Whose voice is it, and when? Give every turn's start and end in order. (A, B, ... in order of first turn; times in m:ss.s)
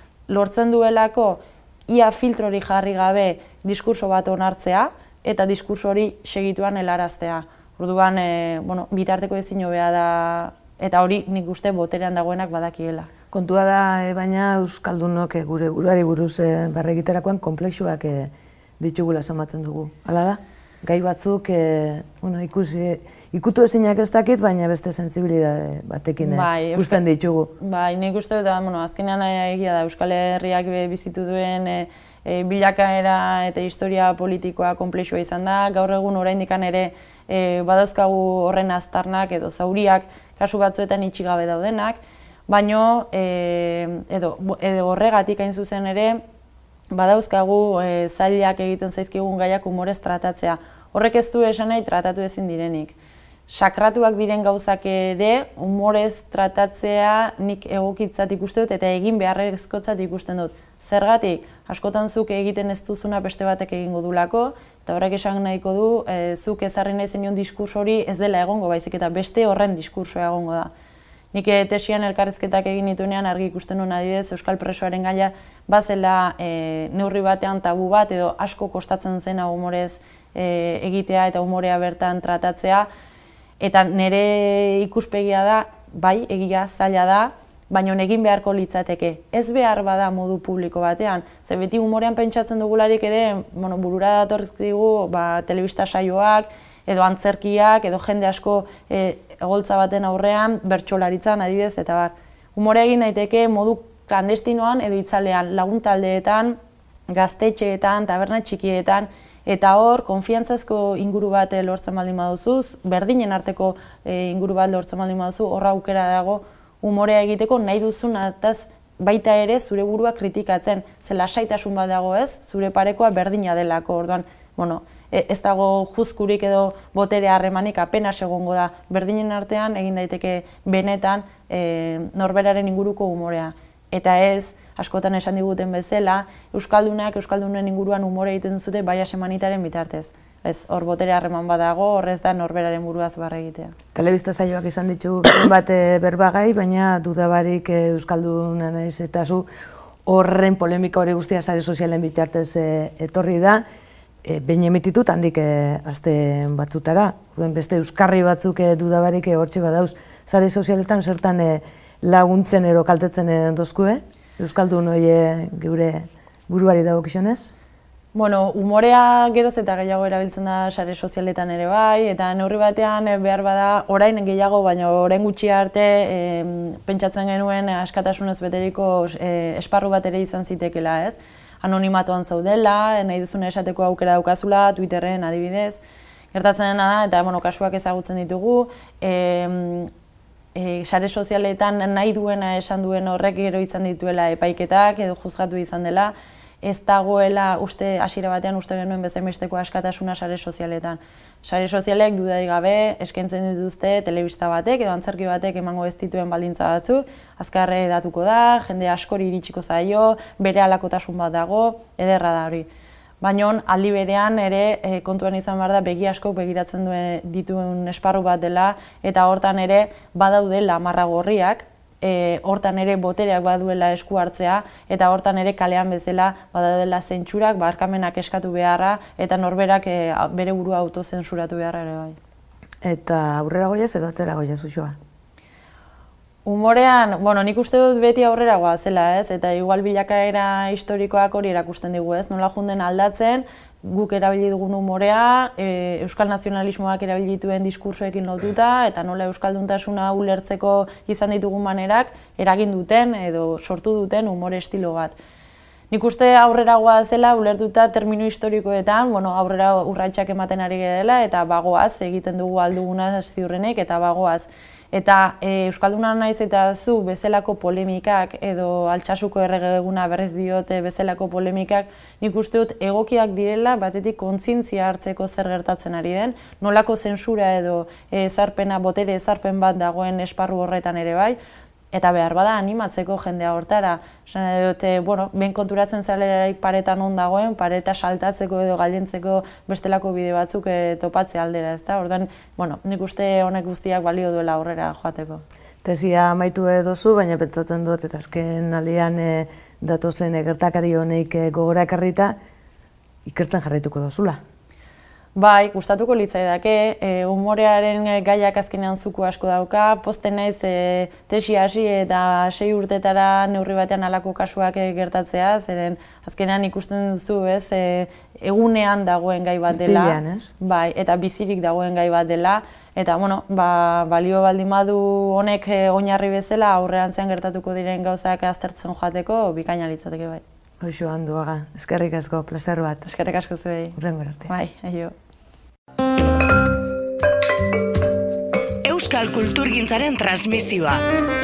0:00.3-0:13.1 A
0:13.3-0:27.5 B
0:26.2-0:27.0 A
0:27.6-0:46.2 A
0:46.9-0:52.9 A
0:53.5-1:10.7 A
1:11.3-1:22.9 A
1:23.6-1:46.6 A
1:47.1-2:23.8 A
2:24.0-2:29.5 B
2:30.1-2:33.6 B
2:34.2-2:47.5 B
2:48.1-3:05.8 A
3:06.3-3:09.9 A
3:10.6-3:16.1 A
3:16.6-3:32.7 A
3:33.2-3:52.2 A
3:52.8-3:55.0 B
3:56.5-4:15.2 A
4:15.9-4:41.4 A
4:41.9-4:55.4 A
4:55.8-5:02.4 B
5:03.3-5:04.4 B
5:05.4-5:30.4 A
5:19.7-5:20.5 B
5:30.8-5:33.0 B
5:33.0-5:35.1 A
5:34.0-5:34.5 B
5:38.8-5:41.0 C